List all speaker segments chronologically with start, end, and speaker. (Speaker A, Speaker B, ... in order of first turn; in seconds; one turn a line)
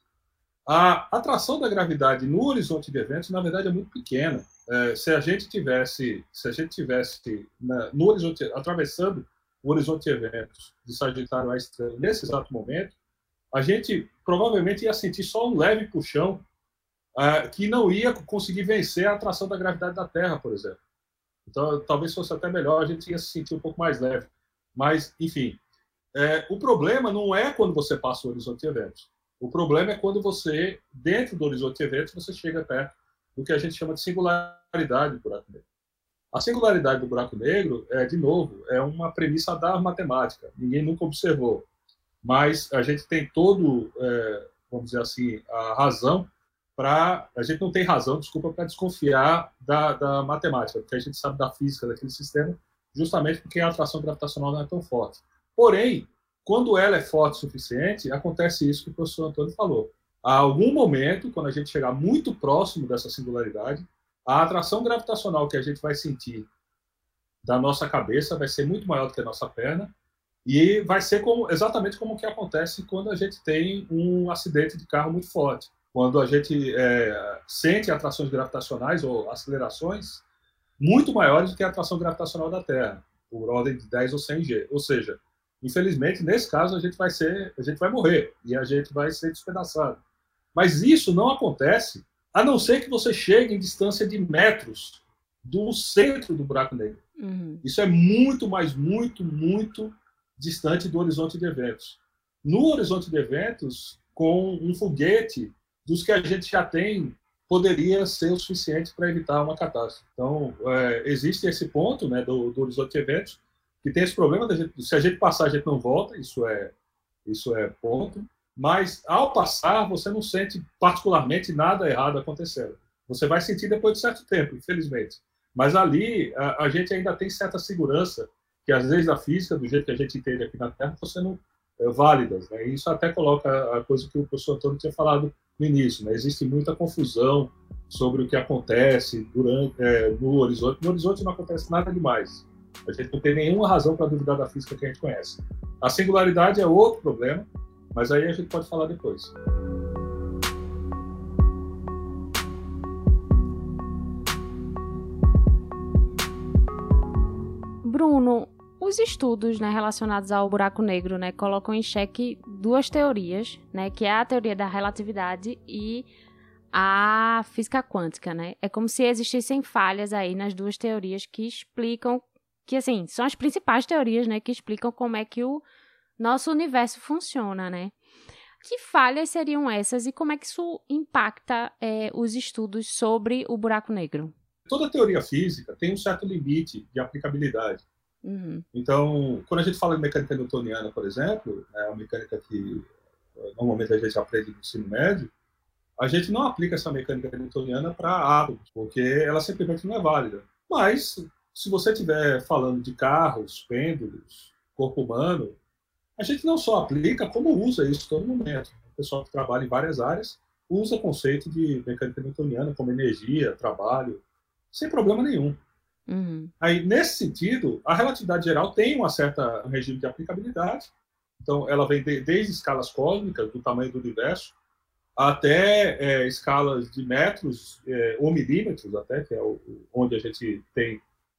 Speaker A: 0.7-12.9
Speaker A: 13.5-16.4
Speaker A: 17.1-20.8
Speaker A: 21.4-25.6
Speaker A: 26.1-35.6
Speaker A: 36.3-41.6
Speaker A: 42.2-66.5
Speaker A: 67.4-69.9
Speaker A: 70.4-80.2
Speaker A: 80.8-90.0
Speaker A: 90.5-97.0
Speaker B: 97.2-97.6
Speaker A: 97.6-116.7
Speaker A: 117.2-149.3
Speaker B: 157.8-166.1
Speaker B: 166.7-175.6
Speaker B: 176.2-177.9
Speaker B: 178.6-184.3
Speaker A: 184.7-187.8
Speaker B: 188.2-188.6
Speaker A: 188.7-192.9
Speaker A: 193.4-195.3
Speaker A: 196.0-205.6
Speaker A: 206.2-214.2
Speaker A: 214.7-215.6
Speaker B: 216.1-216.5
Speaker A: 216.6-224.5
Speaker A: 225.2-231.0